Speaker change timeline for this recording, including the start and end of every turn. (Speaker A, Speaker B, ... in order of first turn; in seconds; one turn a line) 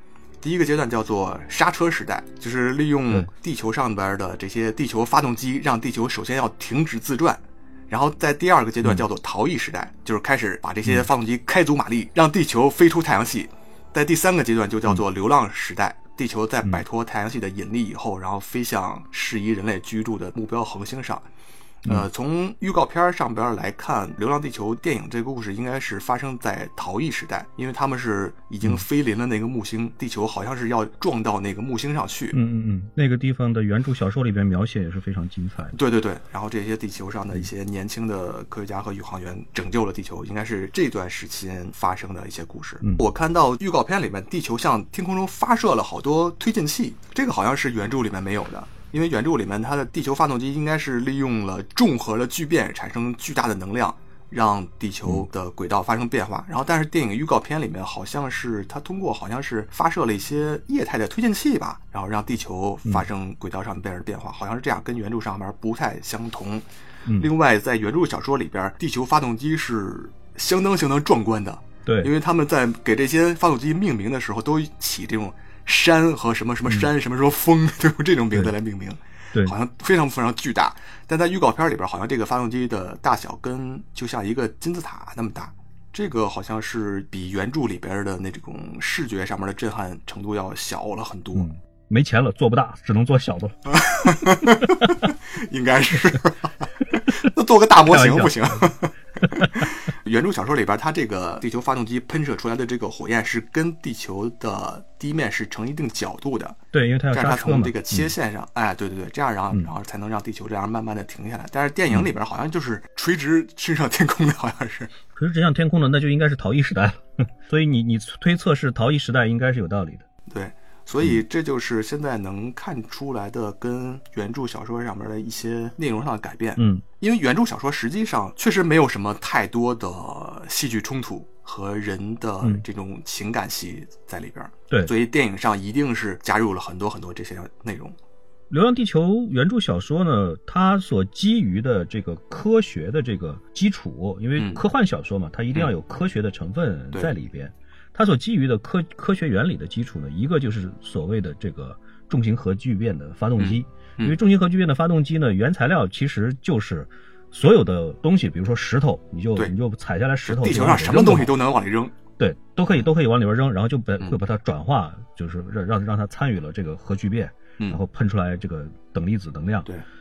Speaker A: 0.4-21.2
Speaker A: 21.8-32.4
Speaker B: 32.3-35.7
Speaker A: 35.7-66.7
Speaker A: 67.2-91.5
Speaker B: 71.8-72.1
Speaker B: 91.3-93.7
Speaker A: 93.7-106.6
Speaker B: 97.8-98.7
Speaker B: 99.4-99.7
Speaker B: 106.7-108.1
Speaker A: 107.1-114.9
Speaker B: 115.2-120.0
Speaker A: 120.3-137.9
Speaker B: 126.6-126.8
Speaker B: 138.5-161.3
Speaker A: 144.3-144.6
Speaker A: 153.4-154.2
Speaker A: 160.2-161.9
Speaker B: 162.2-169.7